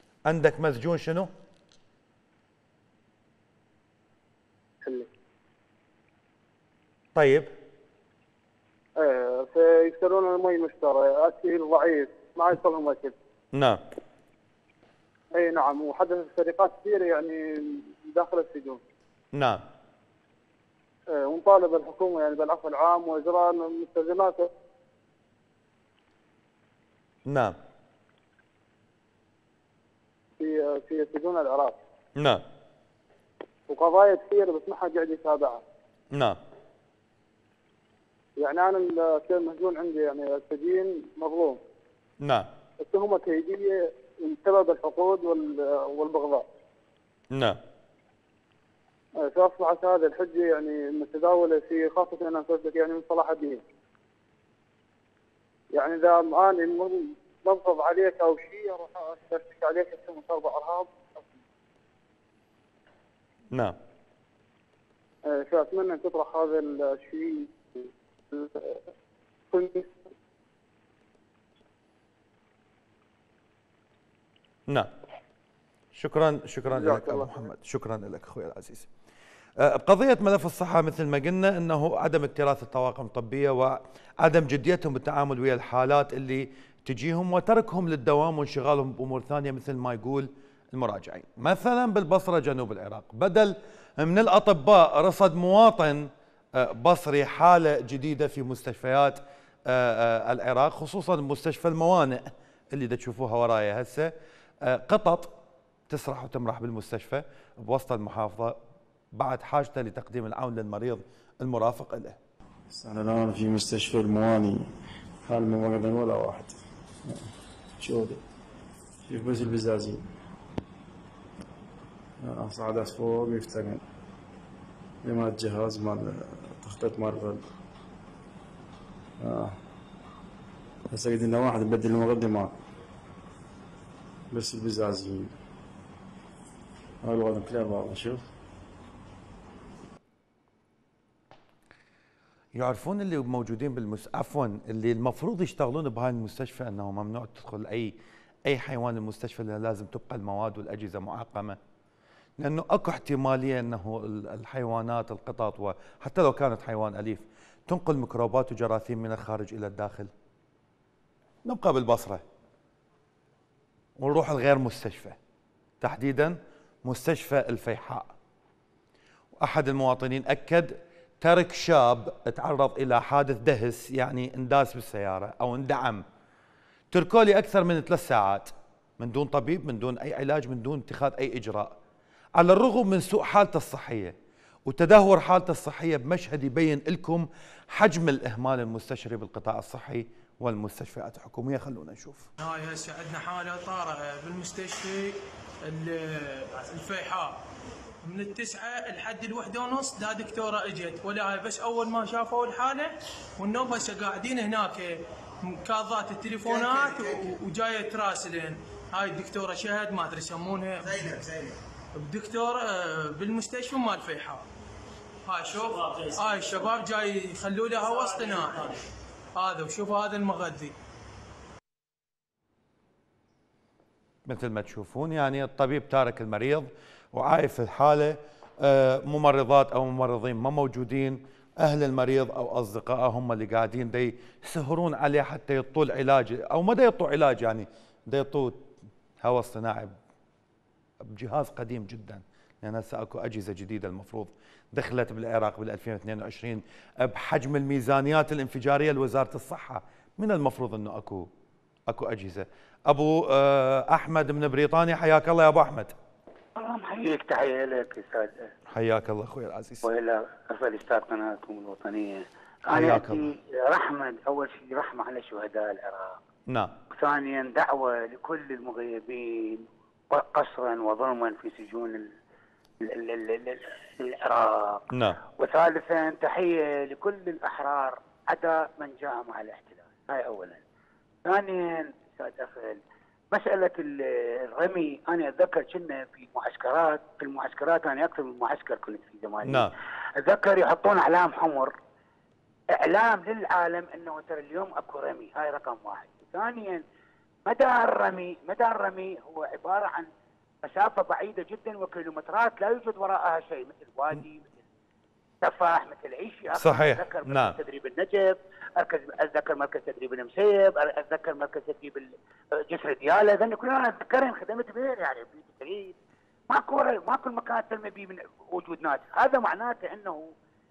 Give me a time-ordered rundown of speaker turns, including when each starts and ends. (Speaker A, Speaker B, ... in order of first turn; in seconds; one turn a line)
Speaker A: 0.2-1.3
Speaker A: 7.1-7.5
Speaker B: 9.0-13.1
Speaker A: 13.5-13.8
Speaker B: 15.3-18.8
Speaker A: 19.3-19.6
Speaker B: 21.1-24.5
Speaker A: 27.2-27.6
Speaker B: 30.4-31.8
Speaker A: 32.1-32.4
Speaker B: 33.7-35.6
Speaker A: 36.1-36.4
Speaker B: 38.4-41.6
Speaker A: 42.2-42.5
Speaker B: 42.8-46.4
Speaker A: 47.3-47.6
Speaker B: 49.2-53.6
Speaker B: 55.7-61.3
Speaker A: 63.5-63.8
Speaker B: 65.3-67.5
Speaker B: 68.3-68.8
Speaker B: 69.5-69.9
Speaker A: 75.9-78.9
Speaker B: 76.7-77.4
Speaker A: 79.6-104.1
Speaker A: 104.6-105.3
Speaker A: 105.9-108.6
Speaker A: 109.1-112.2
Speaker C: 112.7-114.7
Speaker C: 115.2-117.2
Speaker C: 117.8-118.2
Speaker C: 119.1-120.0
Speaker C: 122.2-123.8
Speaker C: 125.0-127.4
Speaker C: 129.2-129.6
Speaker C: 130.9-132.5
Speaker C: 134.3-135.3
Speaker C: 137.0-138.2
Speaker A: 142.5-151.6
Speaker A: 152.4-160.1
Speaker A: 161.4-162.2
Speaker A: 164.0-165.2
Speaker A: 165.8-168.1
Speaker A: 169.4-176.0
Speaker A: 176.9-181.7
Speaker A: 182.4-184.1
Speaker A: 184.7-192.3
Speaker D: 192.4-197.4
Speaker D: 198.0-211.2
Speaker D: 211.9-214.4
Speaker D: 215.2-218.8
Speaker D: 219.3-220.7
Speaker A: 224.2-239.9
Speaker A: 241.1-251.3
Speaker A: 251.9-255.9
Speaker E: 256.6-258.5
Speaker A: 258.7-259.9
Speaker E: 259.9-266.2
Speaker A: 262.7-263.3
Speaker A: 266.5-266.7
Speaker E: 266.9-272.1
Speaker E: 272.8-274.8
Speaker A: 274.9-275.2
Speaker E: 275.4-280.6
Speaker E: 281.2-282.8
Speaker E: 283.3-291.7
Speaker A: 289.4-289.7
Speaker E: 292.7-296.8
Speaker E: 297.4-300.1
Speaker E: 300.6-304.6
Speaker E: 305.4-316.0
Speaker A: 306.5-307.6
Speaker E: 316.5-320.3